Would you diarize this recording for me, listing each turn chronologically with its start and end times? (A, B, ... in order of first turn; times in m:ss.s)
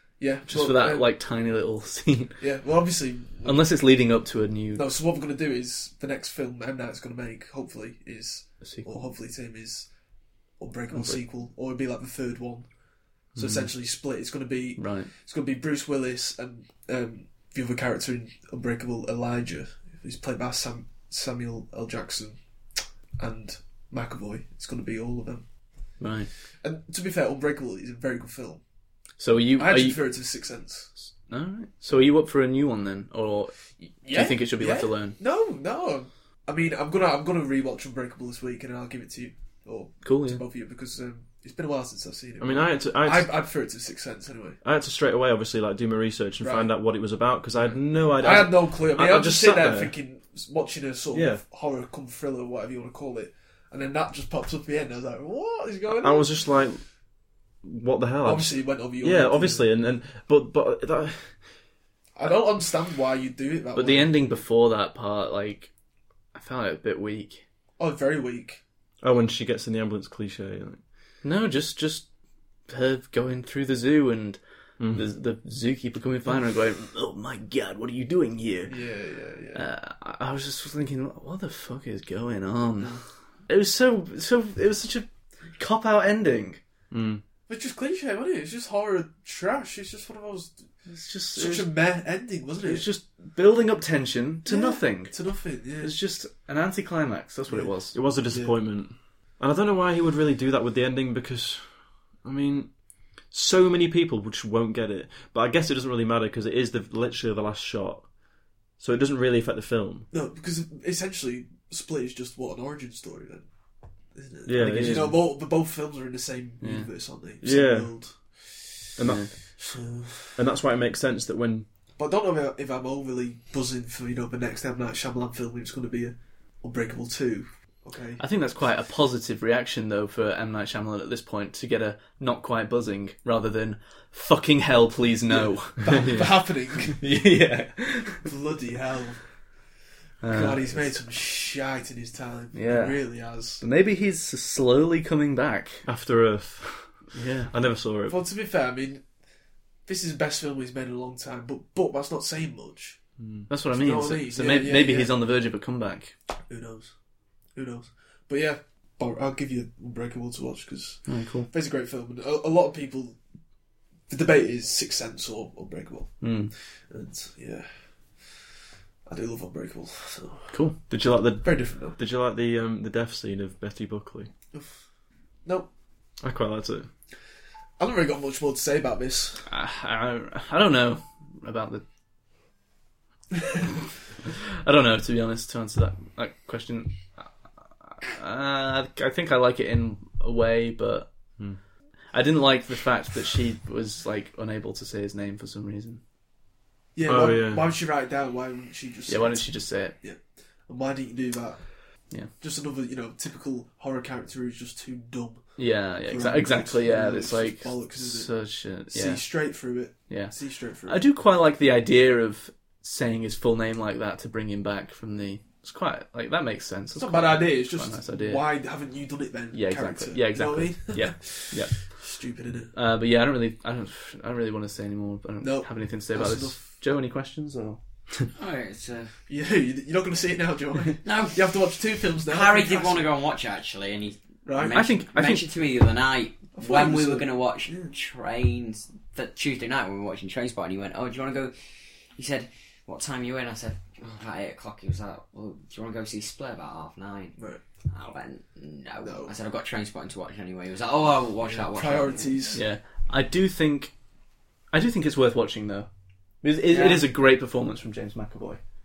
0:00.2-0:01.1 A
0:00.4-0:02.4 B
0:02.4-0:03.8 A
0:03.4-0:04.8 B
0:04.7-0:09.9 A
0:08.6-0:09.0 B
0:10.6-0:12.7 A
0:10.9-0:11.2 B
0:13.2-0:22.4 A
0:13.4-0:13.7 C
0:14.8-0:15.1 B
0:23.2-0:25.5 A
0:26.0-0:26.3 B
0:26.6-0:28.6 A
0:29.2-0:30.0 B
0:29.6-0:30.9 A
0:31.2-0:35.2 B
0:34.0-0:44.6 A
0:40.0-0:40.4 B
0:42.4-0:43.3 C
0:44.6-0:49.9 C
0:46.4-0:46.7 A
0:47.7-0:56.3 A
0:51.1-0:51.4 C
0:56.0-0:56.8 C
0:57.6-1:01.6 C
0:58.2-0:59.7 A
1:02.2-1:04.3 A
1:03.7-1:05.7 B
1:06.3-1:07.4 B
1:07.8-1:08.6 A
1:09.0-1:10.8 C
1:11.2-1:12.1 B
1:12.7-1:18.9 B
1:14.8-1:15.0 C
1:18.7-1:19.6 A
1:19.5-1:26.6 B
1:22.8-1:23.0 A
1:26.9-1:27.2 C
1:27.5-1:30.7 A
1:30.9-1:31.8 B
1:31.3-1:32.9 A
1:32.6-1:38.0 B
1:34.4-1:35.9 A
1:37.5-1:38.6 A
1:37.9-1:48.1 C
1:48.8-1:50.1 C
1:50.1-1:53.5 A
1:54.1-1:58.7 A
1:54.4-1:55.2 C
1:54.6-1:55.1 B
1:56.6-1:56.9 B
1:57.4-1:58.3 C
1:59.0-1:59.6 C
1:59.0-1:59.3 B
1:59.6-2:00.4 A
2:00.3-2:01.6 C
2:02.0-2:08.2 A
2:08.2-2:18.2 B
2:15.3-2:17.0 A
2:18.2-2:19.3 A
2:20.2-2:20.9 B
2:20.3-2:23.6 A
2:22.5-2:25.9 B
2:25.8-2:28.2 C
2:27.1-2:27.5 B
2:28.1-2:29.1 A
2:29.8-2:33.0 A
2:33.2-2:33.5 C
2:33.5-2:36.1 B
2:33.7-2:35.2 A
2:36.5-2:36.9 A
2:37.5-2:43.2 A
2:41.0-2:41.5 B
2:44.1-2:48.4 A
2:46.2-2:46.5 B
2:49.0-2:50.5 A
2:50.5-2:50.8 B
2:50.9-2:54.3 C
2:51.4-2:52.0 A
2:54.5-2:54.8 A
2:56.2-2:56.9 C
2:57.8-2:59.5 A
2:59.5-3:01.8 B
3:04.6-3:11.4 B
3:12.1-3:16.0 B
3:16.9-3:31.0 A
3:17.0-3:17.7 C
3:19.1-3:19.9 B
3:25.6-3:29.3 B
3:30.1-3:38.5 B
3:36.9-3:42.7 A
3:39.5-3:42.0 B
3:42.7-3:47.8 B
3:45.4-3:46.7 A
3:48.3-3:49.1 D
3:49.3-3:53.1 A
3:51.0-3:51.5 D
3:52.2-4:07.4 D
3:54.4-3:54.9 A
3:54.7-3:55.4 B
3:56.5-3:57.9 A
4:07.9-4:12.4 D
4:09.0-4:09.3 A
4:11.4-4:12.6 A
4:12.5-4:14.0 B
4:14.7-4:15.9 B
4:16.4-4:18.6 B
4:16.7-4:17.0 A